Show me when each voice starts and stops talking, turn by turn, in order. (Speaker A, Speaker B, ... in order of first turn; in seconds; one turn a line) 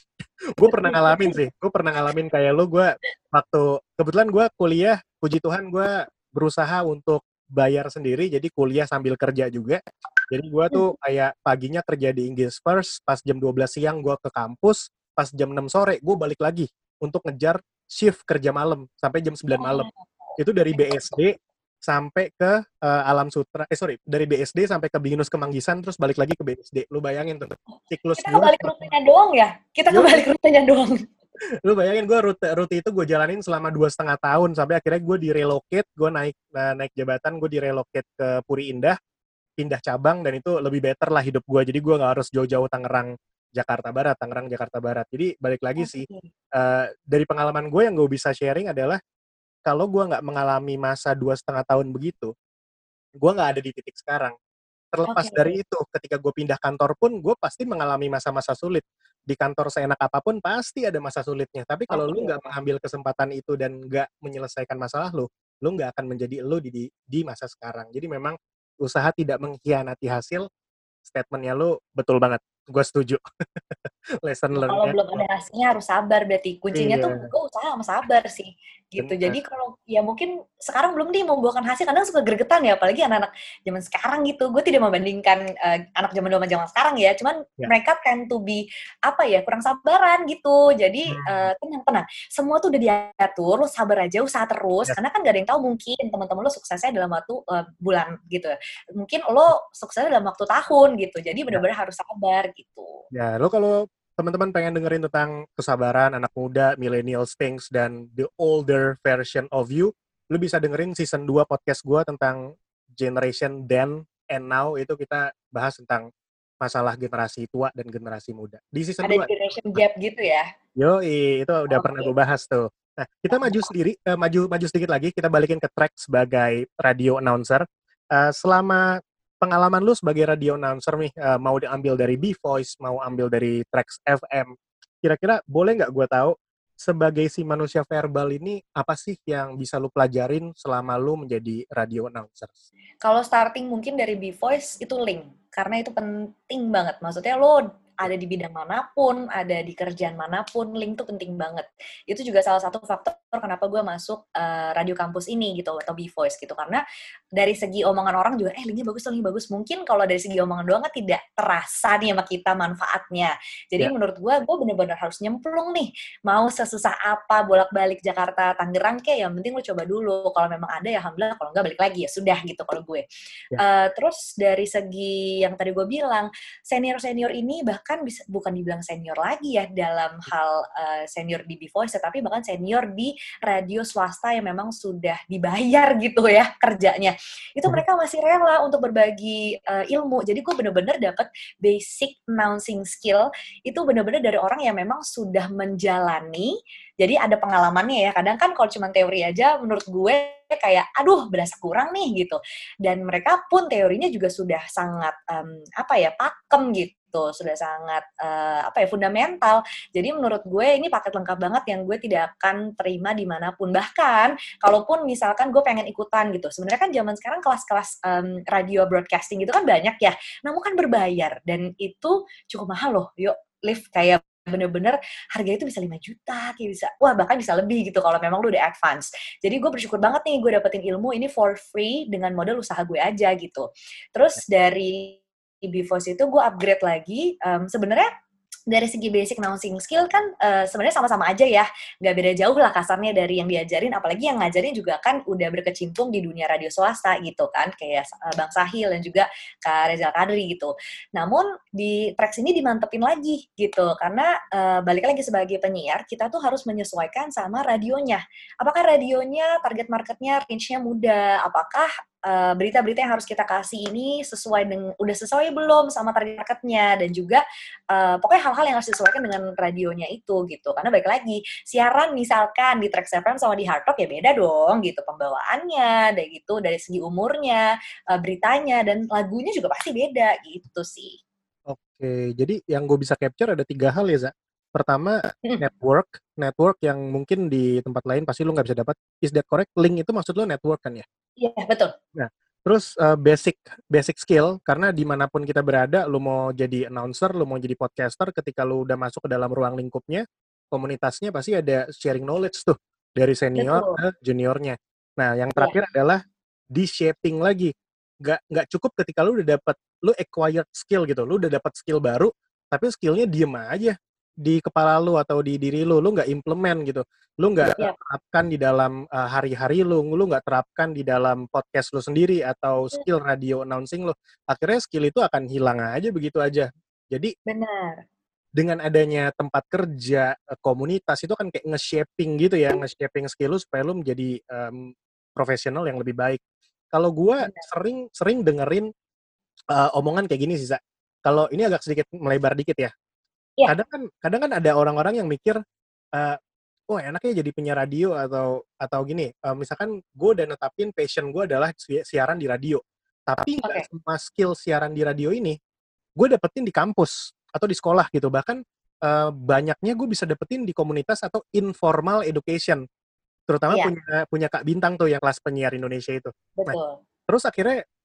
Speaker A: 0.6-19.9
Speaker B: 0.7-1.4
Speaker B: 19.6-21.2
Speaker A: 20.4-28.9
Speaker B: 28.2-31.1
Speaker A: 29.9-30.3
Speaker A: 31.6-39.0
Speaker A: 39.6-49.0
Speaker B: 45.8-46.3
Speaker A: 49.7-52.3
Speaker A: 53.2-54.3
Speaker A: 54.9-70.5
Speaker B: 55.1-55.5
Speaker B: 61.9-62.5
Speaker A: 71.0-73.2
Speaker A: 74.2-75.2
Speaker B: 74.6-103.0
Speaker A: 76.7-77.3
Speaker A: 79.0-79.4
Speaker A: 91.1-91.5
Speaker A: 103.1-112.4
Speaker A: 113.0-116.1
Speaker A: 116.6-119.3
Speaker B: 119.0-120.5
Speaker A: 120.8-134.5
Speaker B: 121.7-122.1
Speaker B: 123.3-123.7
Speaker A: 135.0-142.6
Speaker B: 143.0-156.8
Speaker B: 157.4-173.0
Speaker B: 173.6-238.1
Speaker B: 238.7-281.2
Speaker A: 281.7-291.0
Speaker B: 291.4-291.9
Speaker A: 292.1-306.2
Speaker B: 303.6-304.0
Speaker A: 306.7-307.7
Speaker A: 308.2-327.3
Speaker B: 327.5-328.0
Speaker A: 328.6-336.4
Speaker A: 336.9-338.9
Speaker B: 337.4-337.7
Speaker A: 339.7-342.9
Speaker A: 343.7-345.6
Speaker A: 346.9-355.6
Speaker A: 356.2-362.8
Speaker A: 363.5-366.8
Speaker B: 366.6-367.0
Speaker A: 367.3-367.8